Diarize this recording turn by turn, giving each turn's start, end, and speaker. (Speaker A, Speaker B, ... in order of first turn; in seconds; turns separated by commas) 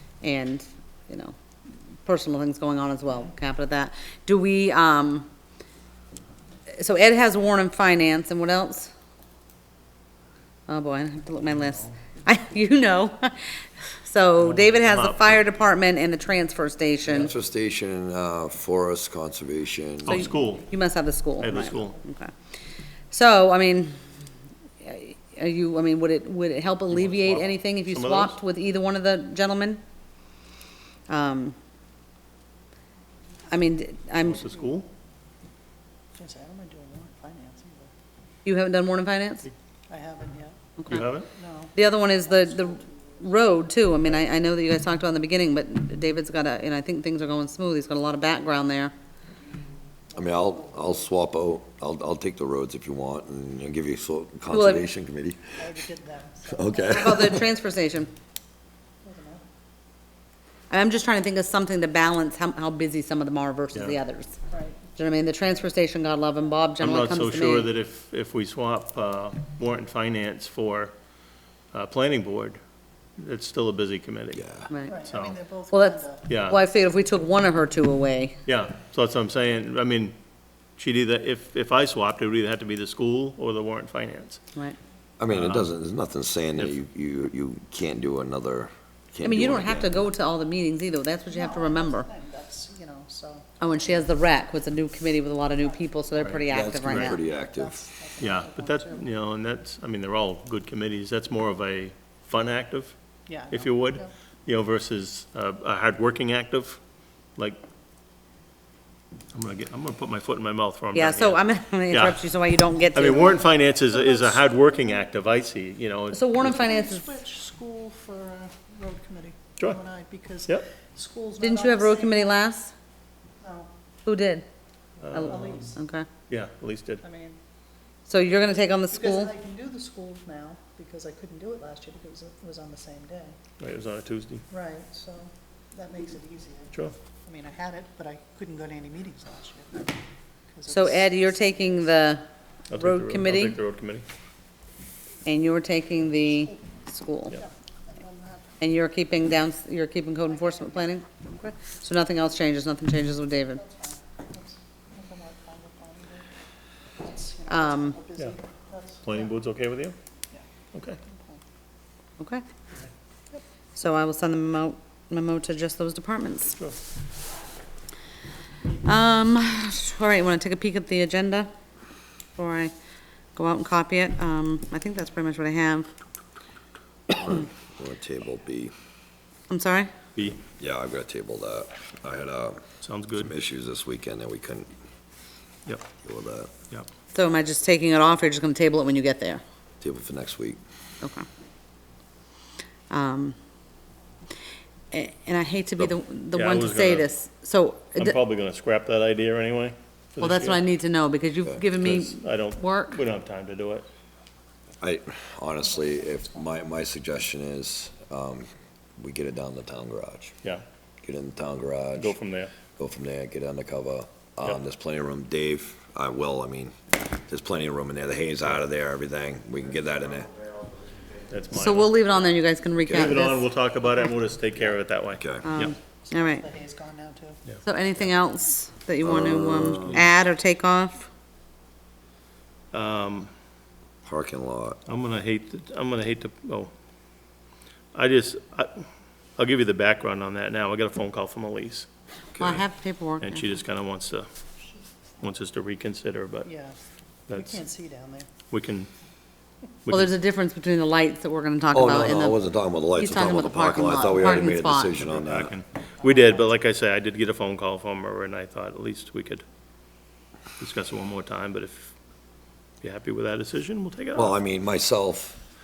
Speaker A: 0.2-1.3, Speaker A: 2.0-5.3, Speaker A: 6.7-8.9, Speaker A: 10.7-17.3, Speaker B: 14.4-15.4, Speaker C: 17.0-20.2, Speaker B: 20.0-20.7, Speaker A: 20.1-22.3, Speaker B: 21.4-21.9, Speaker A: 23.1-23.9, Speaker A: 24.8-29.8, Speaker B: 26.9-28.3, Speaker A: 31.1-31.5, Speaker A: 33.5-34.5, Speaker B: 34.2-34.9, Speaker D: 36.1-37.9, Speaker A: 38.4-39.5, Speaker D: 39.9-40.6, Speaker A: 40.8-41.1, Speaker B: 40.9-41.3, Speaker D: 41.3-43.3, Speaker A: 41.7-48.9, Speaker D: 50.1-50.9, Speaker C: 50.1-55.5, Speaker A: 54.5-54.9, Speaker D: 55.6-56.9, Speaker C: 56.5-57.5, Speaker A: 56.9-58.1, Speaker D: 59.0-59.4, Speaker A: 60.7-64.4, Speaker D: 64.5-64.8, Speaker A: 64.9-67.7, Speaker B: 66.8-70.9, Speaker B: 71.7-72.6, Speaker B: 73.2-75.4, Speaker C: 74.3-74.7, Speaker A: 74.7-75.0, Speaker D: 74.8-76.3, Speaker A: 75.7-78.4, Speaker B: 76.3-76.6, Speaker B: 78.5-80.2, Speaker B: 80.8-84.4, Speaker C: 85.2-90.1, Speaker B: 85.3-85.7, Speaker A: 89.2-92.1, Speaker D: 91.3-93.5, Speaker A: 93.6-97.2, Speaker D: 95.6-96.4, Speaker B: 96.2-97.1, Speaker C: 96.5-97.8, Speaker D: 97.0-99.1, Speaker B: 98.2-102.9, Speaker D: 103.3-104.1, Speaker B: 103.5-106.8, Speaker B: 109.3-112.2, Speaker A: 110.9-113.4, Speaker B: 112.9-116.6, Speaker D: 113.0-115.1, Speaker A: 116.1-117.1, Speaker D: 116.4-122.4, Speaker A: 121.4-122.7, Speaker D: 123.4-123.7, Speaker A: 124.0-124.4, Speaker B: 125.0-125.6, Speaker A: 125.1-126.0, Speaker D: 125.1-125.8, Speaker B: 126.3-127.0, Speaker D: 127.0-127.4, Speaker A: 128.1-129.3, Speaker D: 128.9-133.3, Speaker B: 133.6-134.4, Speaker D: 134.5-136.7, Speaker D: 137.2-139.9, Speaker D: 140.5-141.4, Speaker A: 140.7-143.6, Speaker B: 142.7-144.0, Speaker A: 145.2-147.4, Speaker D: 147.3-148.6, Speaker A: 148.6-153.6, Speaker D: 153.6-156.3, Speaker D: 157.0-159.3, Speaker A: 157.5-158.0, Speaker B: 159.0-159.9, Speaker B: 160.7-161.0, Speaker D: 161.0-161.4, Speaker A: 162.2-162.4, Speaker A: 163.7-166.6, Speaker A: 168.8-171.5, Speaker A: 172.3-172.7, Speaker A: 173.3-175.9, Speaker C: 177.1-178.7, Speaker A: 179.5-179.9, Speaker B: 180.2-180.4, Speaker C: 180.6-182.6, Speaker B: 182.8-183.3, Speaker C: 183.1-184.7, Speaker C: 186.0-186.5, Speaker A: 187.1-189.4, Speaker C: 189.8-190.6, Speaker A: 192.9-193.3, Speaker A: 194.9-198.2, Speaker B: 195.8-197.1, Speaker B: 198.0-200.6, Speaker A: 200.2-203.0, Speaker B: 201.8-203.8, Speaker C: 204.8-210.3, Speaker C: 211.0-212.2, Speaker B: 211.9-212.5, Speaker C: 212.8-220.4, Speaker B: 221.3-221.9, Speaker A: 221.5-223.4, Speaker C: 222.9-223.2, Speaker B: 222.9-225.7, Speaker C: 225.2-225.4, Speaker A: 225.4-226.4, Speaker D: 226.1-227.4, Speaker A: 227.6-231.1, Speaker C: 229.0-230.1, Speaker B: 232.7-233.3, Speaker C: 234.0-234.8, Speaker B: 234.9-236.7, Speaker B: 237.9-238.8, Speaker B: 239.4-241.9, Speaker C: 242.3-242.6, Speaker A: 242.4-243.5, Speaker B: 243.2-244.3, Speaker B: 245.2-246.5, Speaker D: 246.4-248.3, Speaker B: 247.3-247.6, Speaker B: 248.5-248.9, Speaker B: 249.8-250.1, Speaker A: 249.9-252.4, Speaker C: 251.7-255.5, Speaker A: 252.9-255.0, Speaker B: 255.0-259.4, Speaker D: 256.0-256.4, Speaker B: 260.6-261.9, Speaker B: 262.8-264.3, Speaker C: 264.1-265.4